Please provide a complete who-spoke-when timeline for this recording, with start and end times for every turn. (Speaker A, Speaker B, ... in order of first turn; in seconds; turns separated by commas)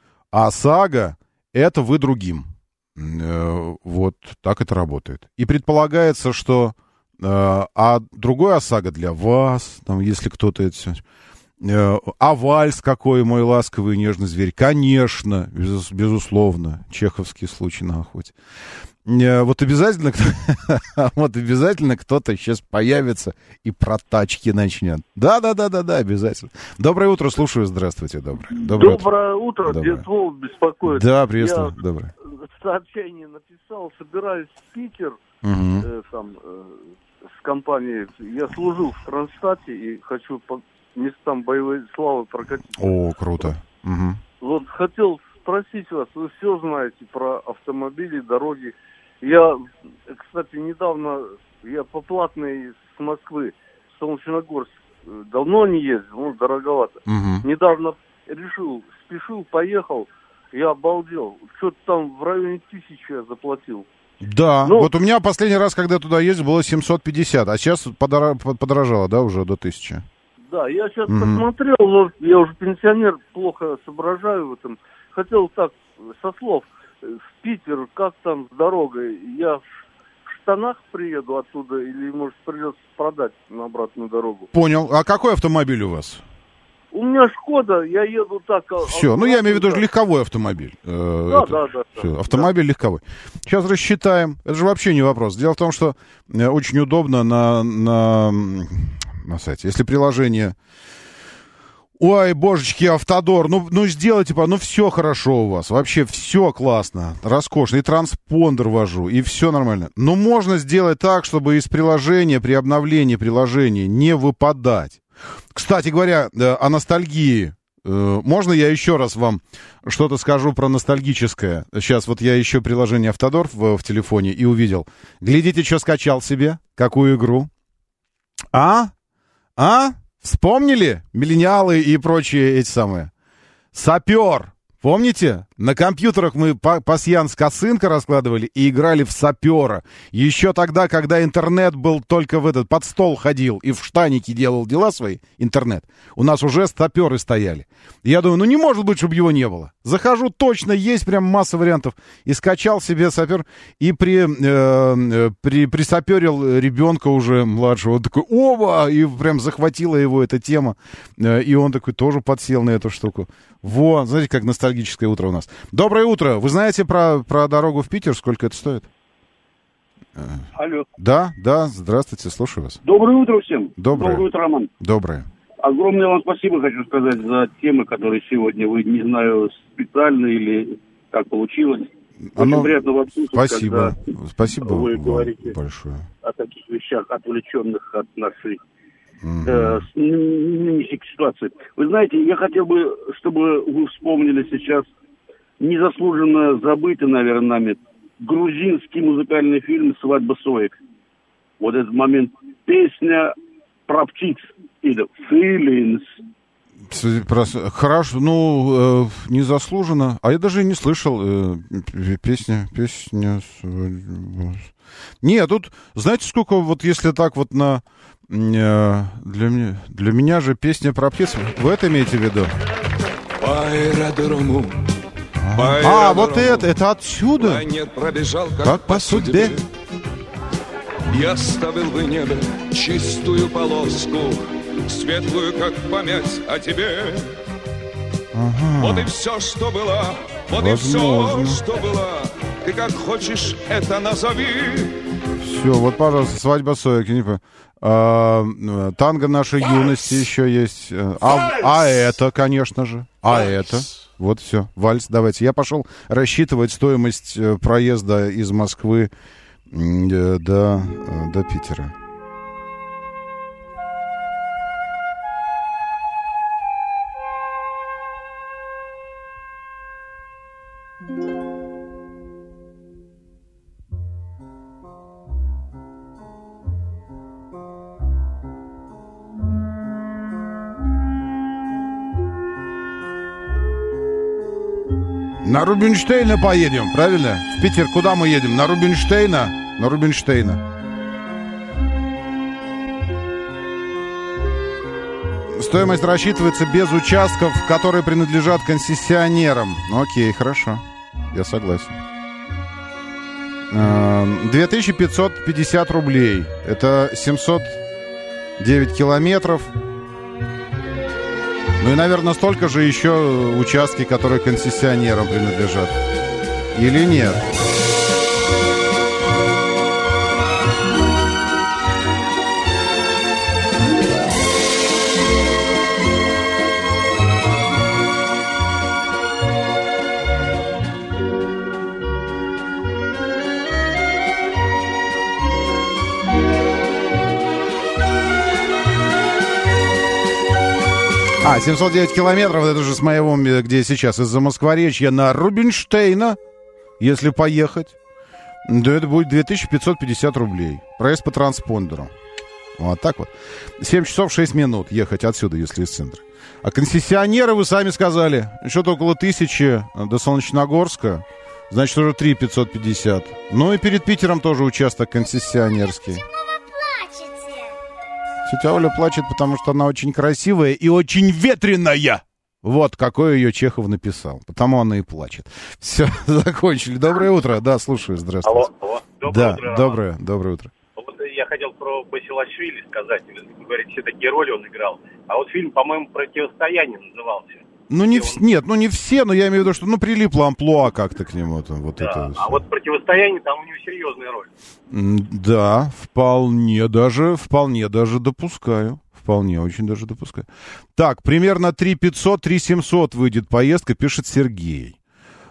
Speaker A: 0.3-11.0, Speaker A: 11.6-18.3, Speaker A: 19.0-29.1, Speaker B: 28.6-31.7, Speaker A: 29.6-30.0, Speaker A: 30.8-32.1, Speaker B: 32.4-35.2, Speaker A: 35.4-35.9, Speaker B: 35.8-36.8, Speaker B: 37.4-43.5, Speaker A: 42.8-44.2, Speaker B: 44.4-63.9, Speaker A: 57.1-57.4, Speaker A: 64.2-70.0, Speaker B: 64.6-64.9, Speaker B: 70.5-79.6, Speaker A: 71.1-71.4, Speaker B: 80.3-84.5, Speaker A: 84.5-86.2, Speaker B: 86.9-89.9, Speaker A: 88.9-100.5, Speaker B: 91.3-92.5, Speaker A: 102.0-115.0, Speaker A: 115.5-127.5, Speaker A: 128.5-128.9, Speaker A: 129.6-133.1, Speaker A: 133.7-168.9, Speaker C: 170.6-170.9, Speaker A: 171.0-172.8, Speaker C: 172.8-174.7, Speaker A: 173.8-174.2, Speaker A: 174.8-175.2, Speaker C: 175.6-183.9, Speaker A: 182.3-182.7, Speaker A: 183.3-186.1, Speaker C: 184.7-185.5, Speaker C: 186.2-188.6, Speaker A: 189.2-189.8, Speaker C: 189.4-194.9, Speaker C: 195.6-200.8, Speaker C: 201.6-203.3, Speaker C: 203.9-206.2, Speaker A: 206.9-214.7, Speaker A: 215.2-222.5, Speaker D: 223.4-224.8, Speaker A: 225.4-227.7, Speaker D: 225.5-226.7, Speaker D: 227.4-229.6, Speaker A: 228.6-229.6, Speaker D: 231.1-237.3, Speaker A: 238.3-239.1, Speaker D: 238.8-244.9, Speaker A: 240.5-241.6, Speaker A: 245.4-259.1, Speaker A: 259.7-261.9, Speaker A: 285.4-290.6, Speaker A: 295.5-302.0, Speaker A: 303.7-307.8, Speaker A: 308.6-309.7, Speaker A: 311.8-316.0, Speaker A: 316.7-317.4, Speaker A: 341.4-346.4, Speaker A: 347.0-347.9, Speaker A: 348.6-352.1, Speaker A: 352.8-366.2, Speaker A: 368.4-378.7, Speaker E: 378.4-380.0, Speaker A: 379.2-380.7, Speaker E: 381.0-388.4, Speaker A: 387.9-392.6, Speaker E: 392.0-394.5, Speaker A: 394.9-404.9